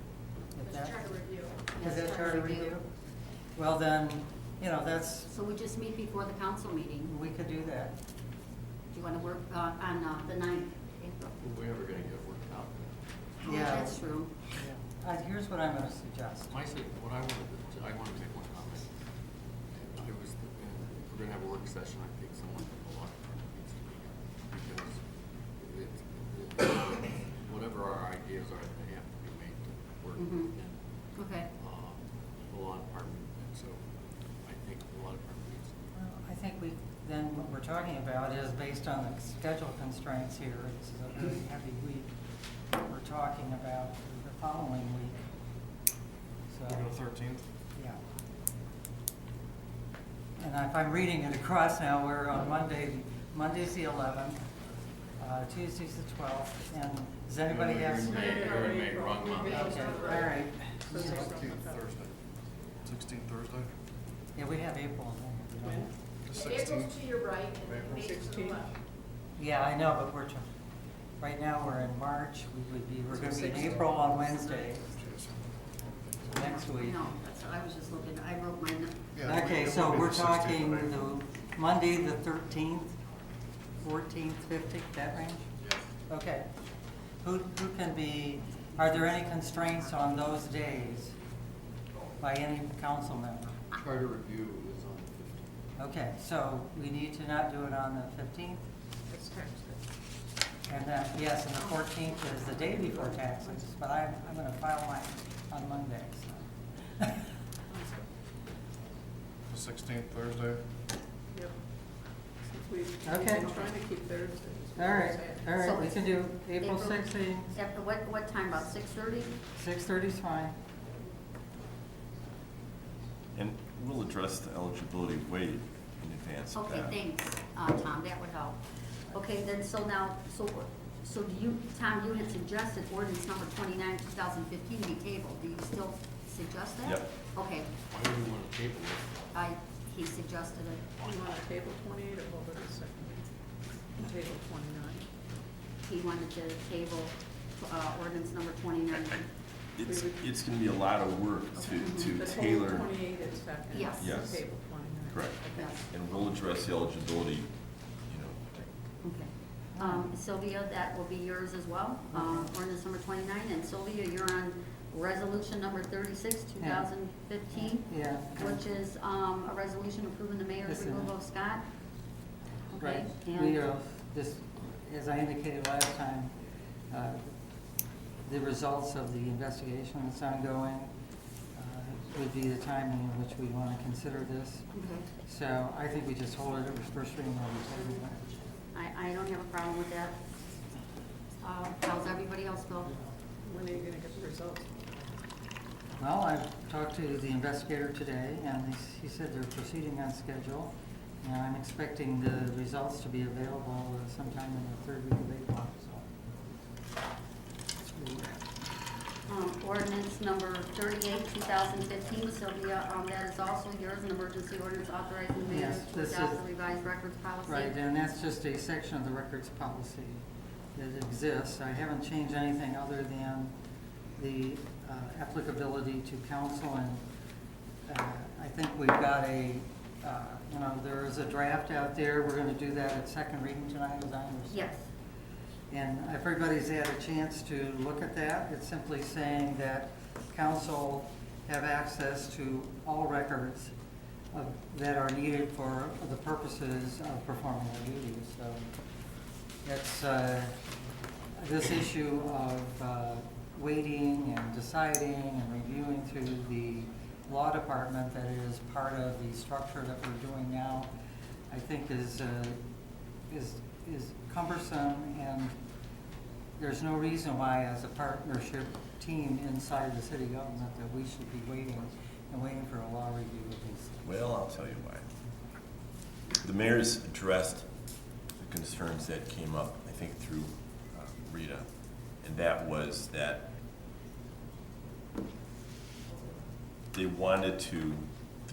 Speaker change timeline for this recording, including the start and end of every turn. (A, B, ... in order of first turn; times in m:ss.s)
0:00.5-0:01.1 A
0:00.6-0:01.6 B
0:01.7-0:02.8 C
0:01.8-0:02.8 A
0:03.6-0:05.3 A
0:05.3-0:07.1 C
0:07.0-0:07.9 A
0:08.9-0:11.3 C
0:11.4-0:13.0 D
0:13.4-0:14.3 C
0:13.4-0:14.0 A
0:14.6-0:16.5 A
0:16.5-0:18.9 D
0:19.7-0:25.0 D
0:25.6-0:30.8 D
0:30.2-0:30.5 C
0:31.2-0:31.5 C
0:31.5-0:32.0 D
0:32.5-0:33.8 D
0:34.4-0:35.7 D
0:35.9-0:42.1 A
0:42.8-0:45.1 A
0:46.5-0:46.8 A
0:46.7-0:47.4 E
0:47.8-0:48.0 A
0:50.4-0:54.4 A
0:55.2-0:58.3 A
0:57.7-1:00.2 D
0:58.0-1:00.4 B
0:58.1-1:01.9 F
0:59.5-1:01.4 A
1:01.4-1:02.1 E
1:02.8-1:03.7 E
1:04.4-1:05.9 A
1:05.6-1:05.9 F
1:06.3-1:06.9 E
1:06.3-1:08.7 B
1:07.6-1:07.9 E
1:07.8-1:08.7 F
1:09.4-1:10.4 A
1:11.2-1:14.9 A
1:13.1-1:14.0 F
1:14.9-1:16.4 E
1:16.3-1:17.0 A
1:16.4-1:19.0 C
1:19.1-1:20.9 E
1:19.2-1:23.0 A
1:23.8-1:25.4 A
1:26.1-1:26.5 A
1:27.2-1:31.1 A
1:32.2-1:33.6 A
1:33.8-1:35.5 D
1:35.8-1:38.6 A
1:39.1-1:39.8 F
1:40.7-1:46.4 A
1:47.7-1:48.1 F
1:49.5-1:50.6 E
1:52.4-1:55.4 F
1:53.0-1:53.6 A
1:54.8-1:57.5 A
1:55.6-1:59.3 C
1:59.5-2:00.5 A
2:03.3-2:07.0 G
2:06.5-2:17.7 C
2:17.9-2:19.3 D
2:19.3-2:20.9 C
2:21.0-2:23.3 F
2:23.9-2:25.1 F
2:25.8-2:29.3 C
2:29.8-2:32.9 G
2:29.8-2:30.2 F
2:31.6-2:32.1 C
2:32.1-2:35.8 F
2:33.7-2:34.2 C
2:34.0-2:37.5 G
2:38.0-2:38.7 G
2:39.0-2:51.7 C
2:39.7-2:40.1 A
2:42.1-2:42.5 A
2:46.6-2:46.9 A
2:47.5-2:48.6 A
2:50.6-2:51.1 A
2:52.7-2:53.6 C
2:52.8-2:56.3 A
2:56.9-2:57.3 A
2:58.2-3:00.9 A
3:01.6-3:04.7 A
3:04.7-3:05.1 C
3:05.2-3:08.2 A
3:08.7-3:10.2 C
3:11.4-3:12.9 C
3:13.4-3:14.8 F
3:16.0-3:26.0 A
3:27.8-3:28.4 A
3:29.3-3:37.7 C
3:35.5-3:36.4 A
3:37.5-3:43.5 A
3:44.2-3:47.0 A
3:47.9-3:54.7 A
3:54.5-3:54.9 C
3:55.7-4:03.7 A
4:04.3-4:08.7 A
4:09.6-4:10.6 A
4:11.4-4:20.9 A
4:21.5-4:22.6 A
4:23.3-4:25.6 A
4:26.6-4:34.0 A
4:34.0-4:35.0 G
4:36.4-4:37.7 G
4:38.4-4:41.7 G
4:42.2-4:43.5 G
4:46.9-4:48.0 G